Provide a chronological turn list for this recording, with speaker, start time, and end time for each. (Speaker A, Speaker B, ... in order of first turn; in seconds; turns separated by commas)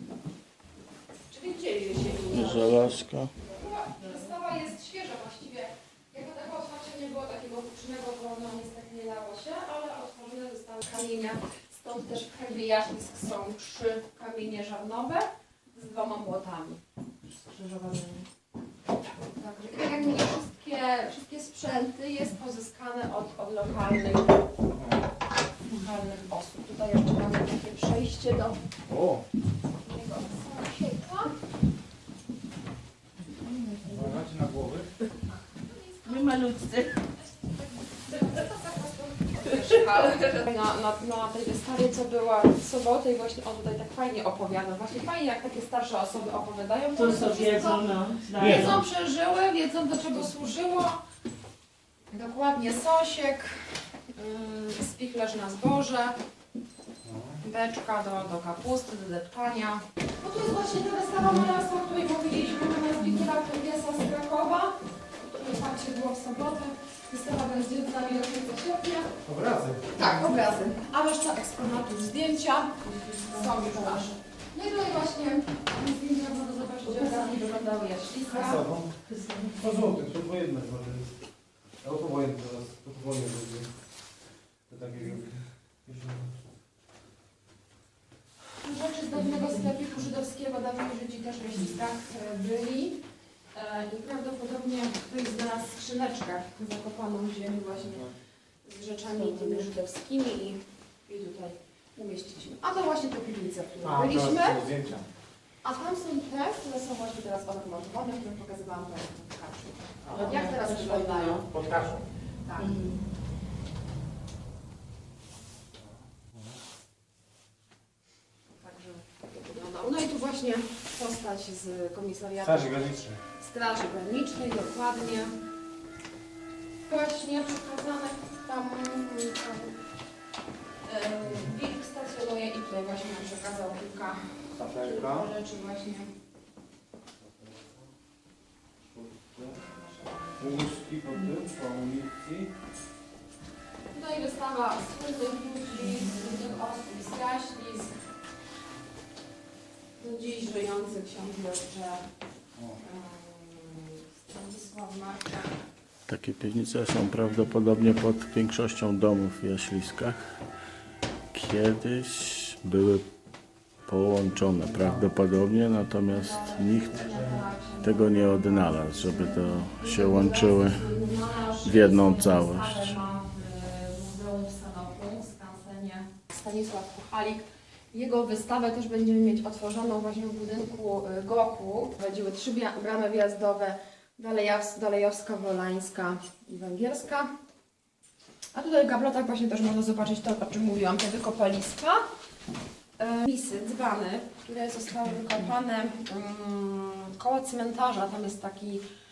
Speaker A: 1.3-2.9, Speaker B: 2.3-3.3, Speaker A: 3.4-16.8, Speaker A: 17.4-18.2, Speaker A: 19.3-24.4, Speaker C: 24.7-25.0, Speaker A: 25.7-28.6, Speaker C: 28.9-29.2, Speaker A: 29.8-31.4, Speaker D: 33.4-34.1, Speaker C: 33.9-34.9, Speaker A: 35.2-36.5, Speaker D: 36.1-36.9, Speaker A: 37.4-47.9, Speaker D: 47.0-48.8, Speaker C: 48.4-48.8, Speaker A: 48.4-51.0, Speaker A: 52.1-56.2, Speaker C: 57.0-57.4, Speaker A: 57.4-69.1, Speaker C: 69.2-70.0, Speaker A: 69.9-78.6, Speaker D: 72.8-74.1, Speaker C: 78.3-78.9, Speaker D: 79.0-79.5, Speaker C: 79.5-81.1, Speaker C: 81.8-83.7, Speaker C: 84.7-86.3, Speaker A: 88.6-93.0, Speaker A: 93.5-98.1, Speaker C: 97.8-98.1, Speaker A: 98.6-104.7, Speaker D: 99.2-99.6, Speaker C: 103.8-105.1, Speaker A: 105.6-111.5, Speaker C: 110.0-110.3, Speaker D: 110.1-111.5, Speaker C: 111.5-112.0, Speaker A: 112.4-112.8, Speaker D: 112.6-113.1, Speaker C: 116.3-116.6, Speaker A: 118.6-125.3, Speaker C: 122.4-123.2, Speaker A: 126.8-129.8, Speaker A: 130.8-136.1, Speaker C: 131.2-131.5, Speaker C: 134.5-135.3, Speaker C: 137.3-137.7, Speaker C: 138.8-139.6, Speaker A: 139.6-140.7, Speaker C: 140.4-142.5, Speaker A: 143.9-147.9, Speaker A: 149.9-152.1, Speaker A: 152.8-155.5, Speaker B: 156.1-160.4, Speaker B: 161.3-163.1, Speaker B: 163.8-167.1, Speaker A: 166.1-187.3, Speaker C: 167.0-167.4, Speaker B: 167.8-170.8, Speaker B: 171.6-173.0, Speaker A: 188.5-192.0, Speaker A: 193.0-198.8